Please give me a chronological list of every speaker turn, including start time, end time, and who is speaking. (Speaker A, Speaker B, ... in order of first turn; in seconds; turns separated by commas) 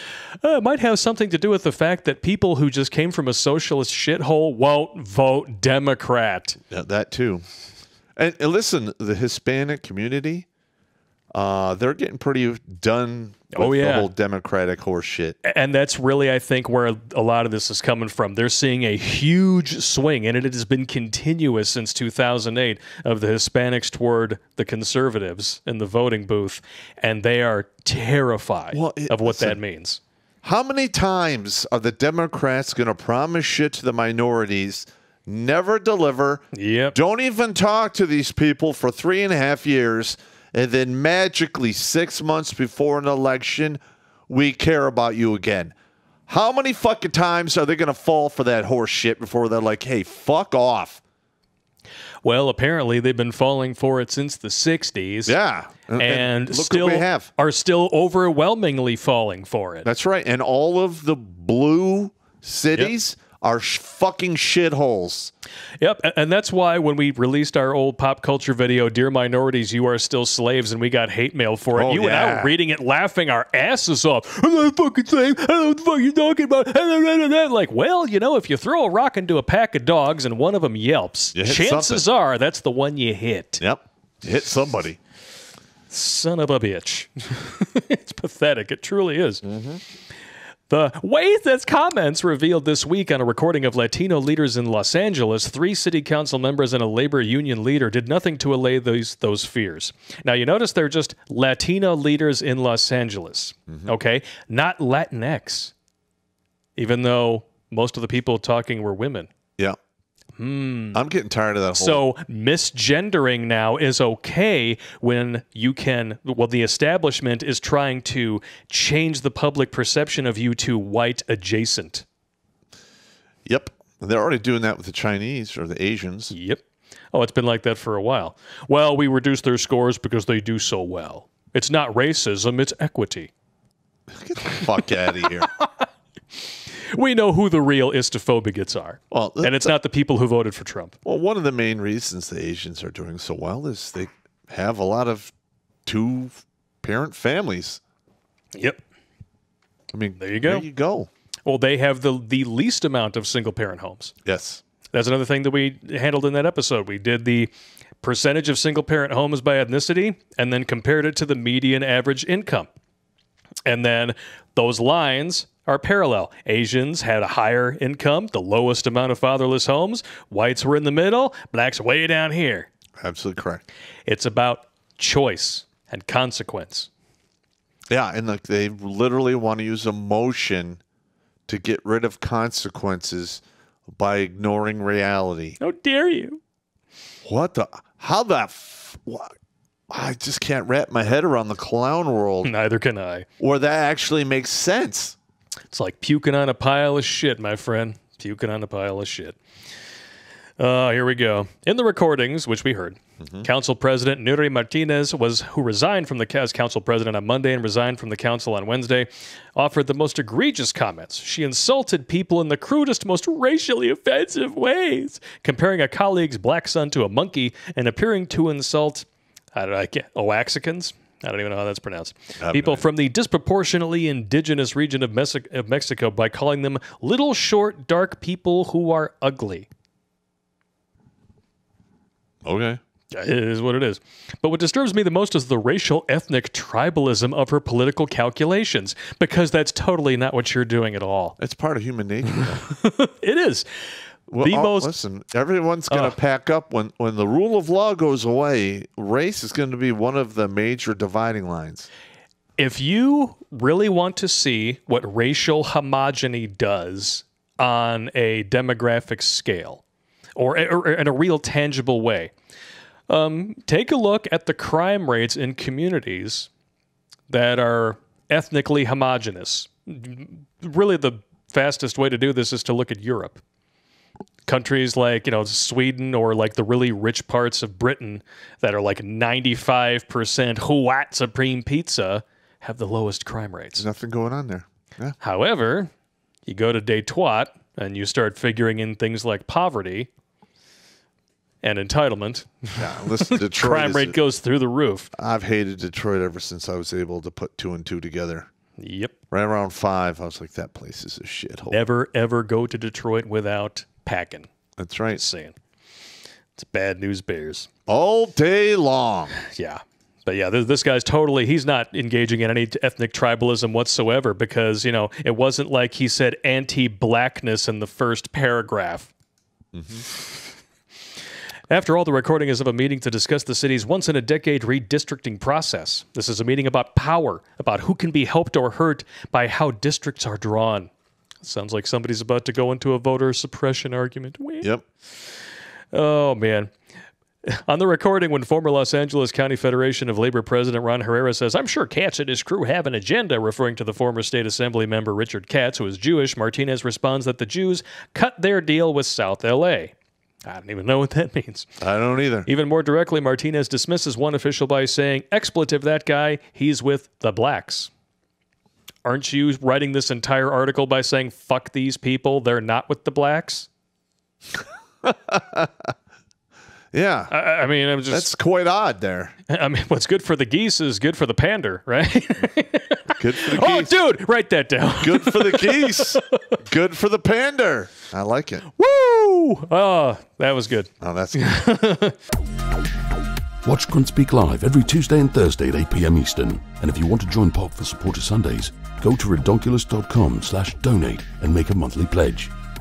Speaker A: 0.4-6.6, Speaker B: 6.7-7.4, Speaker B: 8.2-10.4, Speaker B: 11.3-15.4, Speaker A: 13.5-14.1, Speaker A: 15.4-30.0, Speaker B: 28.7-29.6, Speaker B: 30.4-45.7, Speaker A: 36.5-37.0, Speaker B: 46.3-51.0, Speaker A: 52.2-55.4, Speaker B: 55.2-57.3, Speaker A: 56.0-59.9, Speaker B: 59.8-65.3, Speaker A: 65.8-83.6, Speaker B: 71.7-72.5, Speaker B: 81.3-82.0, Speaker B: 83.6-85.0, Speaker A: 85.9-89.4, Speaker B: 89.4-89.8, Speaker A: 90.7-105.7, Speaker B: 103.7-103.9, Speaker A: 106.8-109.3, Speaker A: 110.4-111.0, Speaker B: 110.9-112.0, Speaker A: 111.7-122.0, Speaker B: 123.5-126.3, Speaker A: 126.3-126.6, Speaker A: 127.1-133.3, Speaker B: 134.1-135.5, Speaker A: 135.6-135.8, Speaker A: 136.7-140.9, Speaker B: 139.1-139.7, Speaker B: 141.0-145.3, Speaker B: 145.8-147.8, Speaker A: 148.5-148.8, Speaker B: 149.9-151.1, Speaker A: 150.2-150.6, Speaker A: 151.4-154.1, Speaker B: 154.2-154.6, Speaker A: 154.9-162.7, Speaker A: 163.7-172.7, Speaker B: 173.0-173.6, Speaker A: 174.1-176.9, Speaker B: 177.9-180.8, Speaker B: 181.5-183.4, Speaker B: 183.9-185.6, Speaker A: 185.6-186.4, Speaker B: 187.2-189.3, Speaker B: 189.9-192.5, Speaker A: 192.4-193.2, Speaker B: 193.4-195.2, Speaker A: 195.7-199.4, Speaker A: 200.6-229.7, Speaker B: 203.2-203.4, Speaker B: 222.4-222.8, Speaker B: 232.4-232.8, Speaker A: 233.1-241.4, Speaker B: 241.4-242.6, Speaker A: 242.6-243.7, Speaker B: 244.3-251.9, Speaker A: 244.4-244.9, Speaker A: 252.6-259.8, Speaker A: 260.4-262.3, Speaker A: 263.1-266.5, Speaker A: 267.3-273.4, Speaker A: 274.4-283.8, Speaker B: 283.8-285.2, Speaker A: 285.2-285.9, Speaker A: 286.4-290.1, Speaker A: 291.6-295.1, Speaker B: 292.8-294.1, Speaker B: 295.1-298.5, Speaker A: 298.8-299.1, Speaker B: 299.3-301.8, Speaker A: 301.7-304.5, Speaker B: 304.8-305.2, Speaker A: 305.1-305.6, Speaker A: 306.6-307.7, Speaker B: 307.9-309.4, Speaker A: 309.4-319.1, Speaker B: 319.7-320.1, Speaker A: 321.7-330.9, Speaker A: 331.4-334.7, Speaker A: 335.9-336.7, Speaker A: 337.4-349.9, Speaker A: 350.4-351.7, Speaker B: 351.8-352.5, Speaker A: 352.5-357.9, Speaker A: 359.0-363.7, Speaker B: 365.0-365.7, Speaker B: 366.9-367.4, Speaker A: 367.3-368.3, Speaker B: 368.1-369.3, Speaker A: 369.5-376.2, Speaker B: 373.2-374.0, Speaker B: 375.0-378.7, Speaker A: 378.7-382.1, Speaker B: 381.0-381.7, Speaker C: 383.6-392.5